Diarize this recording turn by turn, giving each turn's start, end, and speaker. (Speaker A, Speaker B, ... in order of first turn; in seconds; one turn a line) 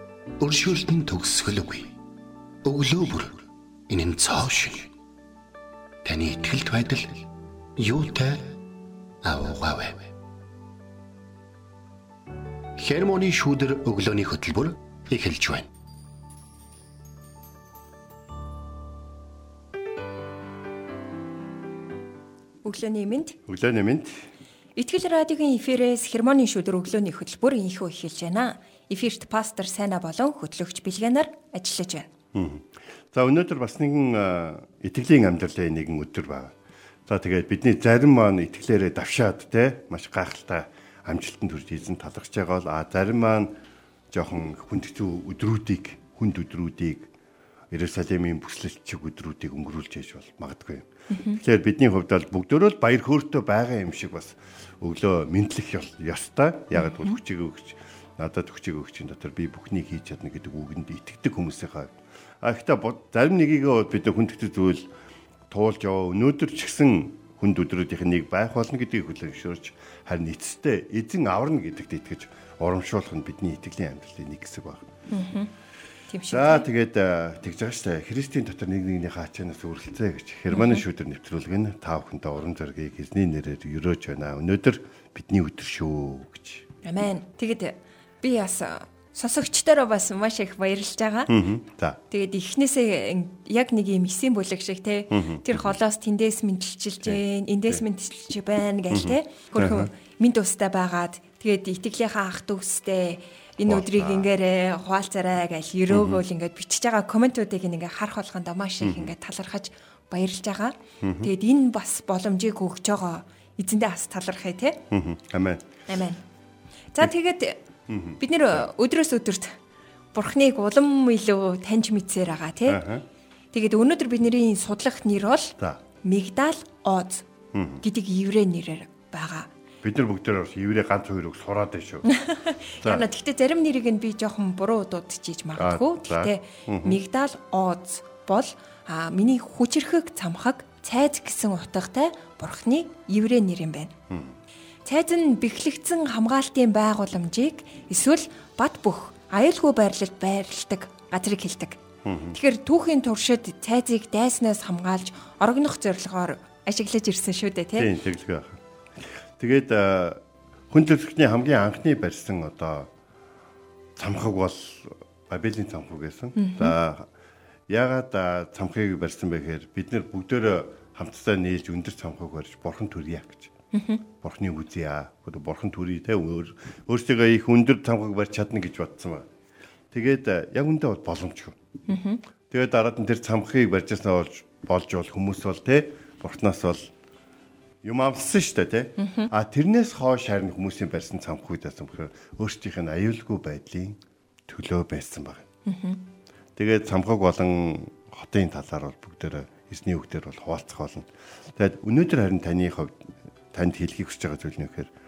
Speaker A: 0.4-1.9
Speaker A: 2.6-4.9
Speaker A: 6.0-7.2
Speaker A: 7.8-8.6
Speaker A: 9.2-10.1
Speaker A: 12.8-15.7
Speaker B: 22.6-23.4
Speaker C: 23.5-24.2
Speaker B: 24.8-32.1
Speaker C: 32.3-36.5
Speaker C: 37.1-43.5
Speaker C: 44.1-47.1
Speaker C: 47.7-64.9
Speaker B: 51.1-51.4
Speaker B: 56.8-57.2
Speaker C: 65.5-74.9
Speaker B: 75.1-75.5
Speaker B: 76.1-76.7
Speaker C: 76.3-86.7
Speaker B: 80.5-80.8
Speaker B: 86.8-91.3
Speaker C: 91.3-92.0
Speaker B: 92.1-114.8
Speaker C: 95.1-95.7
Speaker C: 97.0-97.8
Speaker C: 98.9-99.9
Speaker C: 103.7-104.3
Speaker C: 105.9-106.2
Speaker C: 108.8-109.1
Speaker C: 111.0-111.3
Speaker C: 114.9-115.7
Speaker B: 115.9-116.2
Speaker B: 116.9-117.6
Speaker C: 117.9-118.7
Speaker B: 118.2-119.6
Speaker B: 120.1-122.8
Speaker C: 122.7-123.0
Speaker B: 123.5-127.3
Speaker C: 127.5-127.8
Speaker B: 127.8-129.5
Speaker C: 129.8-132.1
Speaker B: 132.1-143.9
Speaker C: 135.6-137.0
Speaker C: 144.1-144.3
Speaker B: 144.9-151.8
Speaker C: 152.1-152.4
Speaker B: 152.3-157.9
Speaker C: 157.8-158.6
Speaker C: 159.4-162.9
Speaker C: 164.0-167.1
Speaker B: 166.4-166.8
Speaker C: 167.7-173.5
Speaker B: 173.7-174.0
Speaker C: 174.1-179.3
Speaker C: 179.9-181.6
Speaker B: 181.9-182.2
Speaker C: 182.5-186.9
Speaker C: 187.8-195.5
Speaker B: 189.0-189.3
Speaker B: 195.7-196.0
Speaker C: 196.6-204.9